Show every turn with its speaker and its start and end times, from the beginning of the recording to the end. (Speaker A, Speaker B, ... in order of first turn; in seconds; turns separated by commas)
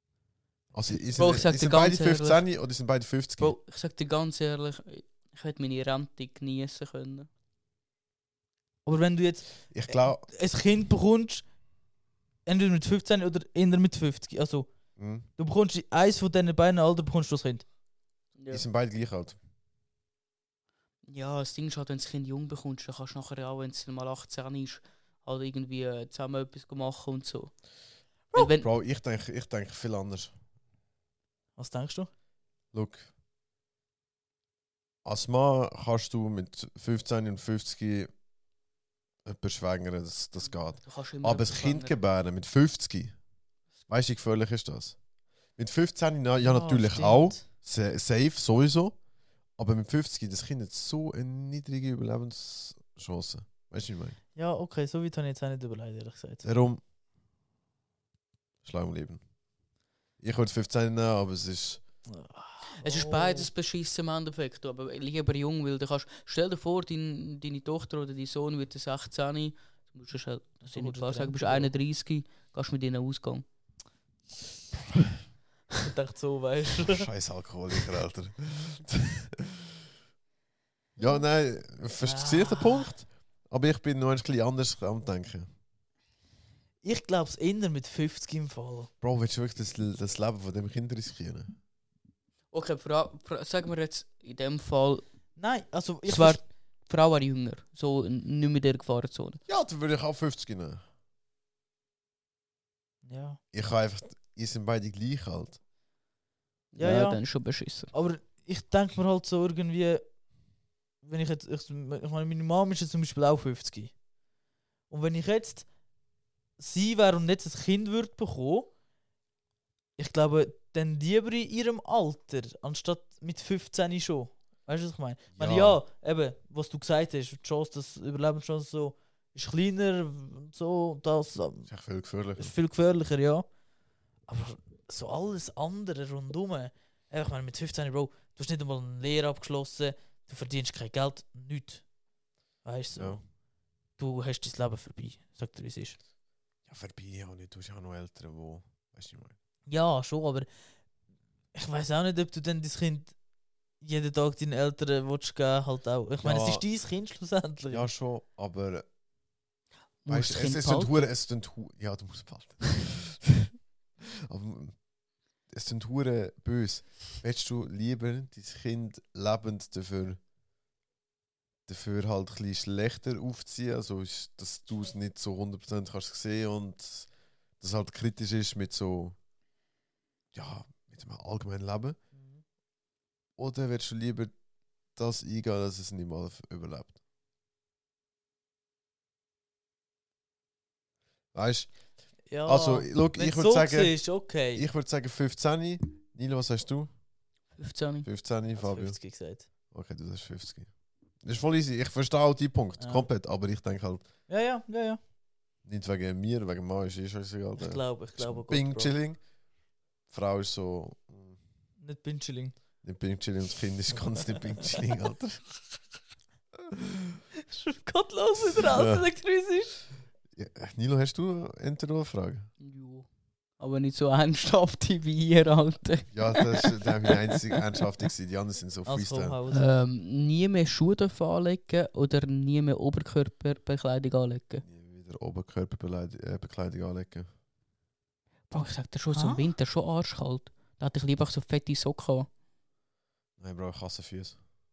Speaker A: 0.7-3.5, Speaker B: 1.2-2.4, Speaker B: 3.4-7.3, Speaker C: 8.8-11.5, Speaker A: 9.7-10.2, Speaker C: 12.5-14.7, Speaker A: 15.0-15.3, Speaker C: 15.4-17.7, Speaker B: 18.4-18.6, Speaker A: 18.5-19.4, Speaker B: 21.1-27.6, Speaker B: 28.3-28.7, Speaker A: 28.6-30.4, Speaker C: 31.6-32.1, Speaker A: 32.7-33.1, Speaker A: 35.0-38.1, Speaker A: 39.2-43.2, Speaker B: 40.7-42.0, Speaker A: 43.9-45.0, Speaker A: 45.6-49.0, Speaker C: 46.4-47.4, Speaker A: 49.6-54.2, Speaker C: 54.4-56.5, Speaker A: 56.4-56.8, Speaker A: 58.6-59.2, Speaker A: 60.2-61.8, Speaker C: 62.1-63.5, Speaker B: 62.8-73.5, Speaker C: 70.6-71.7, Speaker C: 75.8-77.1, Speaker A: 76.8-79.6, Speaker A: 81.0-85.5, Speaker C: 82.0-82.9, Speaker C: 86.8-88.9, Speaker A: 89.0-91.5, Speaker B: 92.5-95.0, Speaker C: 95.4-96.4, Speaker B: 96.0-99.4, Speaker A: 99.5-100.8, Speaker C: 103.0-103.4, Speaker A: 103.5-105.6, Speaker B: 106.7-107.9, Speaker C: 106.8-107.2, Speaker C: 107.9-110.1, Speaker C: 111.0-114.0, Speaker C: 114.9-115.7, Speaker C: 116.6-118.7, Speaker C: 120.0-131.7, Speaker A: 125.3-125.8, Speaker A: 131.7-132.5, Speaker C: 132.4-133.5, Speaker C: 134.3-141.8, Speaker C: 142.6-143.2, Speaker A: 142.9-143.2, Speaker C: 144.0-146.0, Speaker A: 146.7-149.4, Speaker C: 149.7-150.5, Speaker C: 151.5-153.2, Speaker C: 153.8-157.9, Speaker A: 156.2-156.7, Speaker A: 157.7-158.9, Speaker B: 160.1-161.1, Speaker A: 160.1-163.5, Speaker A: 164.3-164.8, Speaker A: 165.5-170.2, Speaker A: 171.7-179.2, Speaker A: 180.3-182.0, Speaker C: 182.1-182.4, Speaker A: 183.4-184.3, Speaker A: 184.9-187.0, Speaker A: 191.3-191.8, Speaker C: 192.3-194.7, Speaker A: 192.4-196.9, Speaker B: 197.6-198.1, Speaker A: 198.0-199.0, Speaker C: 198.5-199.5, Speaker A: 199.7-200.7, Speaker A: 201.2-204.1, Speaker C: 202.8-203.1, Speaker C: 204.3-205.0, Speaker A: 205.7-209.2, Speaker C: 207.6-208.9, Speaker A: 210.1-211.4, Speaker C: 211.8-212.6, Speaker A: 212.8-215.4, Speaker A: 216.7-217.2, Speaker C: 217.5-219.8, Speaker A: 218.6-219.1, Speaker A: 220.3-222.5, Speaker B: 222.6-223.1, Speaker B: 223.6-227.2, Speaker A: 226.1-229.4, Speaker C: 228.9-229.7, Speaker B: 229.5-234.6, Speaker A: 234.6-237.3, Speaker B: 238.5-242.3, Speaker C: 239.1-239.5, Speaker A: 243.4-244.4